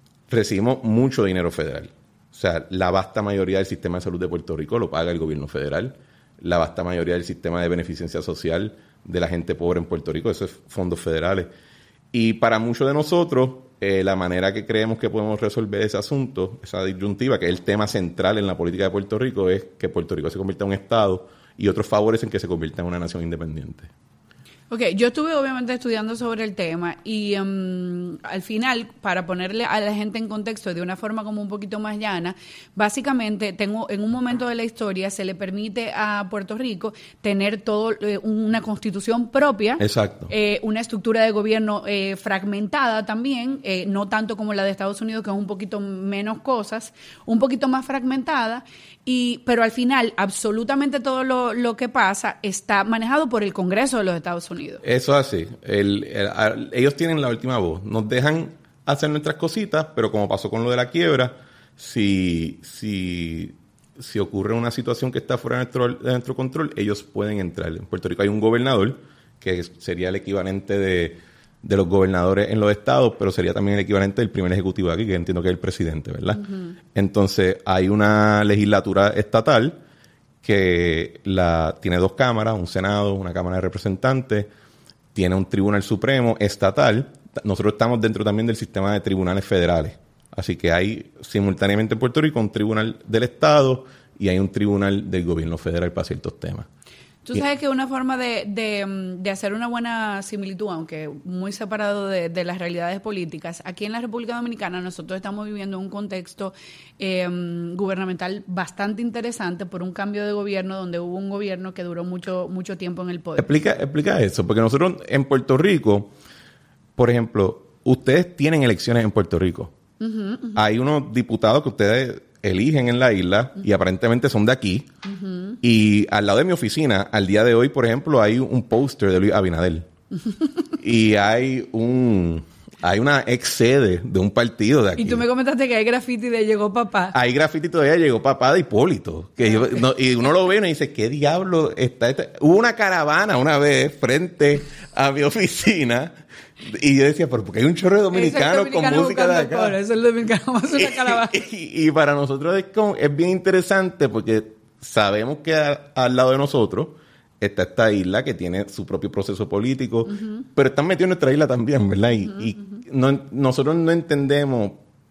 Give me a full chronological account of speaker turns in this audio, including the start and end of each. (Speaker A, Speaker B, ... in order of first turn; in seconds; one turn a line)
Speaker A: 0.3-11.5
Speaker A: 12.1-23.9
Speaker B: 24.7-54.8
Speaker A: 39.8-40.3
Speaker A: 54.8-79.8
Speaker A: 80.4-84.5
Speaker A: 85.1-96.7
Speaker B: 97.2-113.6
Speaker A: 113.4-116.1
Speaker A: 117.0-119.7
Speaker B: 120.0-120.6
Speaker A: 120.5-124.9
Speaker B: 125.0-125.6
Speaker A: 125.6-129.9
Speaker A: 130.8-135.2
Speaker B: 135.0-137.2
Speaker A: 137.1-149.8
Speaker B: 148.1-151.4
Speaker A: 150.7-164.8
Speaker B: 160.1-160.4